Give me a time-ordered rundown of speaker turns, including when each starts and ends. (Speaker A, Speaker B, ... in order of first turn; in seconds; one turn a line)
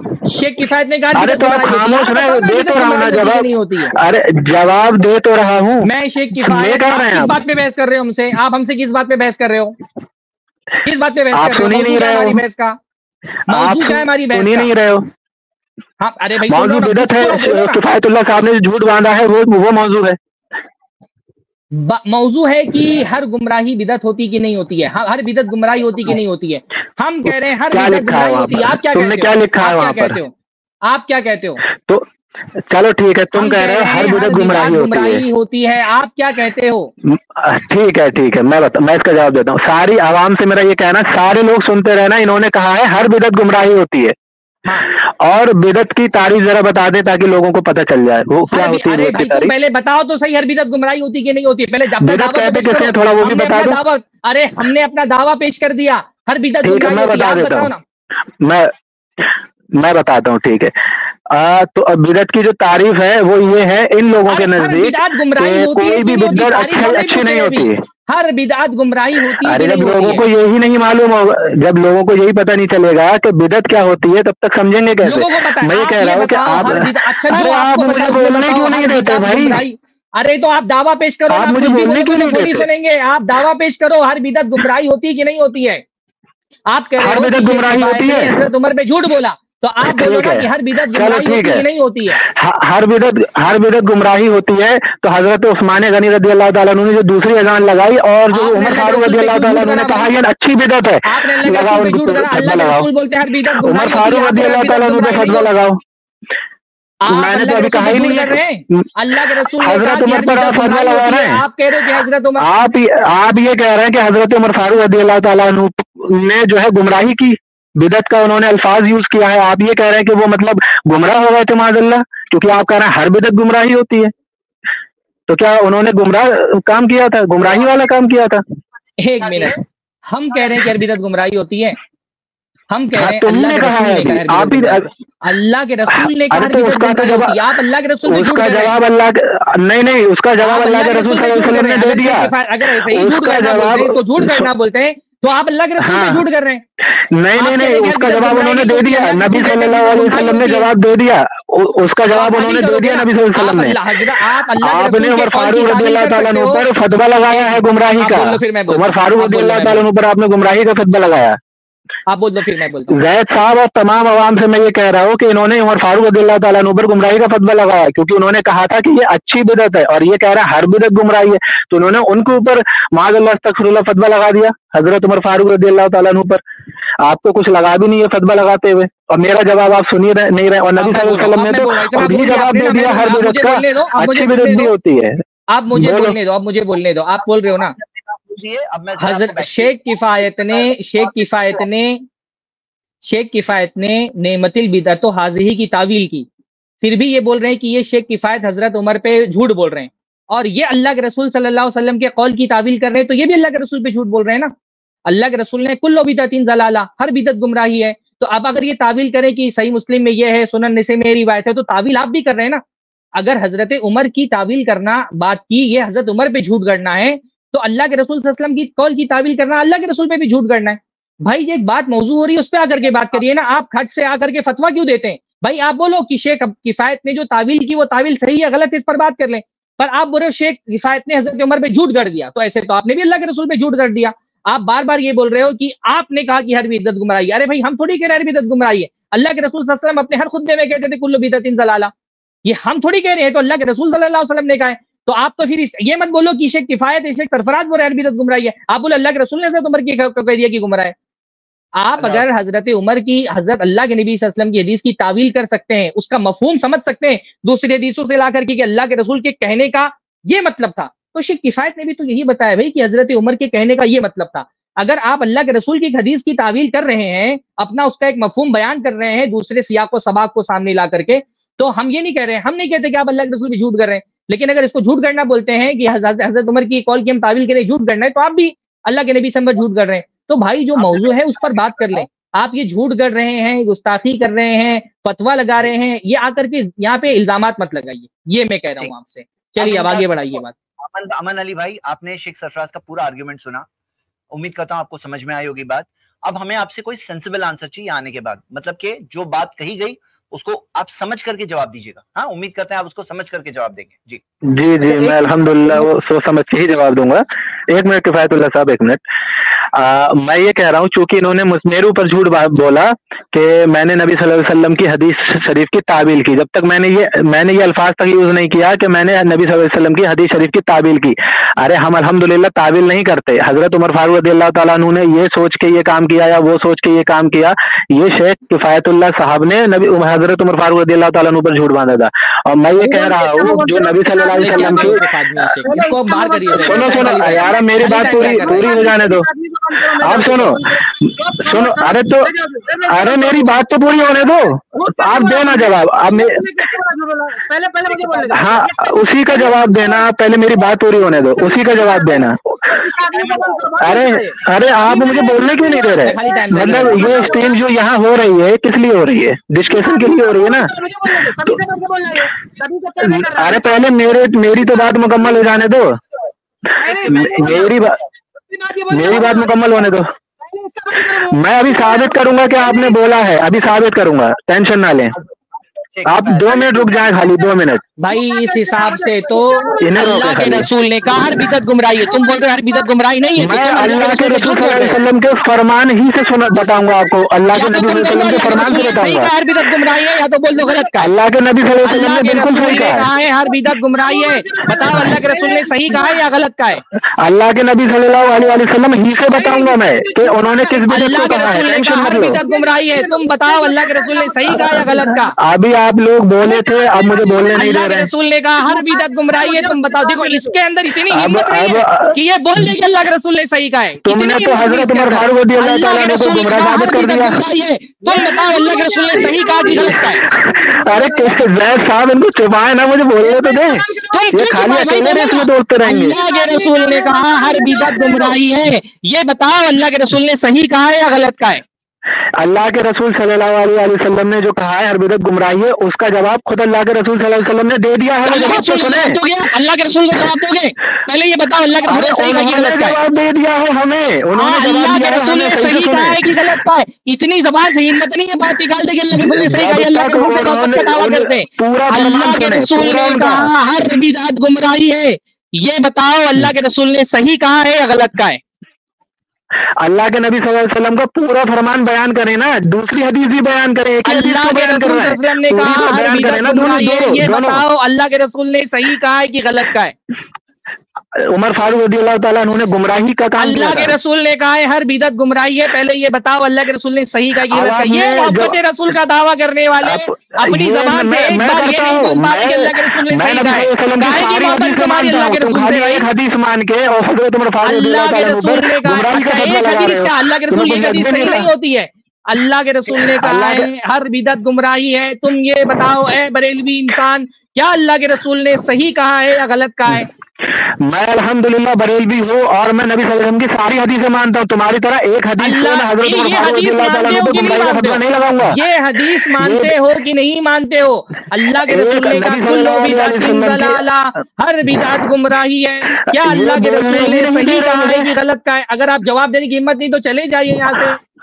Speaker A: 0.3-3.9
Speaker B: 1.1-7.4
Speaker A: 5.8-9.8
Speaker A: 10.8-12.8
Speaker B: 11.3-12.4
Speaker A: 13.5-14.7
Speaker B: 13.5-15.1
Speaker A: 16.0-17.8
Speaker B: 16.5-20.2
Speaker A: 21.7-30.3
Speaker B: 27.7-30.2
Speaker A: 30.9-31.6
Speaker B: 31.7-32.1
Speaker B: 32.6-35.2
Speaker A: 33.4-36.9
Speaker B: 37.0-44.1
Speaker B: 45.1-49.5
Speaker A: 48.5-57.8
Speaker B: 52.0-53.8
Speaker B: 56.6-57.7
Speaker B: 58.4-58.7
Speaker B: 59.2-60.7
Speaker B: 61.3-67.8
Speaker A: 64.3-70.2
Speaker B: 69.4-79.6
Speaker A: 75.0-85.8
Speaker B: 81.3-82.7
Speaker A: 86.7-92.2
Speaker B: 87.0-88.3
Speaker B: 89.8-91.7
Speaker B: 92.2-102.9
Speaker A: 98.3-100.1
Speaker A: 101.1-105.5
Speaker B: 103.6-105.8
Speaker A: 107.0-112.7
Speaker B: 107.1-108.9
Speaker B: 109.6-111.4
Speaker B: 112.4-124.1
Speaker B: 125.3-128.4
Speaker C: 127.4-127.9
Speaker A: 129.0-129.6
Speaker C: 129.2-129.6
Speaker A: 130.1-131.8
Speaker C: 130.3-130.6
Speaker A: 132.7-138.7
Speaker B: 133.0-134.9
Speaker B: 135.9-137.4
Speaker B: 138.1-142.3
Speaker A: 140.4-146.6
Speaker B: 142.9-144.5
Speaker B: 145.8-146.2
Speaker B: 146.9-153.8
Speaker A: 147.4-150.7
Speaker A: 152.1-156.7
Speaker B: 154.6-161.4
Speaker A: 157.2-159.8
Speaker A: 162.1-163.0
Speaker B: 162.9-176.4
Speaker B: 177.0-185.2
Speaker A: 180.8-184.7
Speaker A: 185.5-187.8
Speaker B: 185.8-186.2
Speaker C: 187.6-191.7
Speaker A: 189.0-192.0
Speaker A: 193.0-196.3
Speaker A: 196.8-204.5
Speaker A: 205.1-212.6
Speaker A: 213.2-241.9
Speaker A: 242.4-250.9
Speaker A: 251.8-290.5
Speaker C: 252.0-252.3
Speaker C: 280.8-282.1
Speaker C: 289.6-293.7
Speaker C: 294.3-304.2
Speaker B: 304.5-309.0
Speaker D: 304.8-305.9
Speaker B: 309.7-335.0
Speaker D: 332.8-335.1
Speaker A: 334.2-338.7
Speaker D: 335.6-343.5
Speaker B: 336.6-339.3
Speaker B: 340.0-342.3
Speaker B: 342.9-346.4
Speaker D: 344.8-350.1
Speaker B: 348.3-352.7
Speaker D: 351.4-357.6
Speaker B: 353.8-360.7
Speaker A: 356.0-357.4
Speaker D: 359.7-365.8
Speaker B: 363.0-366.0
Speaker D: 366.8-367.8
Speaker B: 367.0-368.0
Speaker D: 368.5-373.0
Speaker B: 368.9-370.1
Speaker B: 371.3-375.2
Speaker C: 375.8-376.8
Speaker B: 376.1-377.8
Speaker D: 376.7-384.9
Speaker A: 378.0-385.0
Speaker B: 379.8-380.7
Speaker B: 383.4-389.3
Speaker D: 386.2-387.3
Speaker A: 387.5-391.1
Speaker D: 387.9-390.0
Speaker D: 390.5-390.9
Speaker B: 391.0-393.1
Speaker A: 391.9-396.8
Speaker D: 393.5-396.2
Speaker B: 397.2-402.4
Speaker D: 399.3-405.2
Speaker A: 400.9-405.4
Speaker B: 405.4-408.1
Speaker D: 406.4-407.8
Speaker A: 407.6-420.2
Speaker D: 408.6-410.6
Speaker B: 411.1-412.2
Speaker B: 414.1-417.4
Speaker D: 418.0-421.4
Speaker B: 419.7-420.0
Speaker B: 420.6-426.2
Speaker D: 423.2-424.5
Speaker A: 424.1-431.6
Speaker D: 426.1-428.4
Speaker B: 432.4-439.2
Speaker A: 438.3-443.0
Speaker B: 441.9-446.2
Speaker A: 444.4-458.4
Speaker B: 449.1-453.5
Speaker B: 459.8-467.6
Speaker A: 464.1-469.9
Speaker B: 471.1-473.9
Speaker A: 473.4-486.1
Speaker B: 477.5-478.6
Speaker B: 479.8-491.5
Speaker A: 487.6-500.1
Speaker B: 492.9-493.7
Speaker B: 500.5-508.6
Speaker A: 505.4-521.0
Speaker B: 509.4-509.7
Speaker B: 511.7-513.8
Speaker B: 516.0-518.1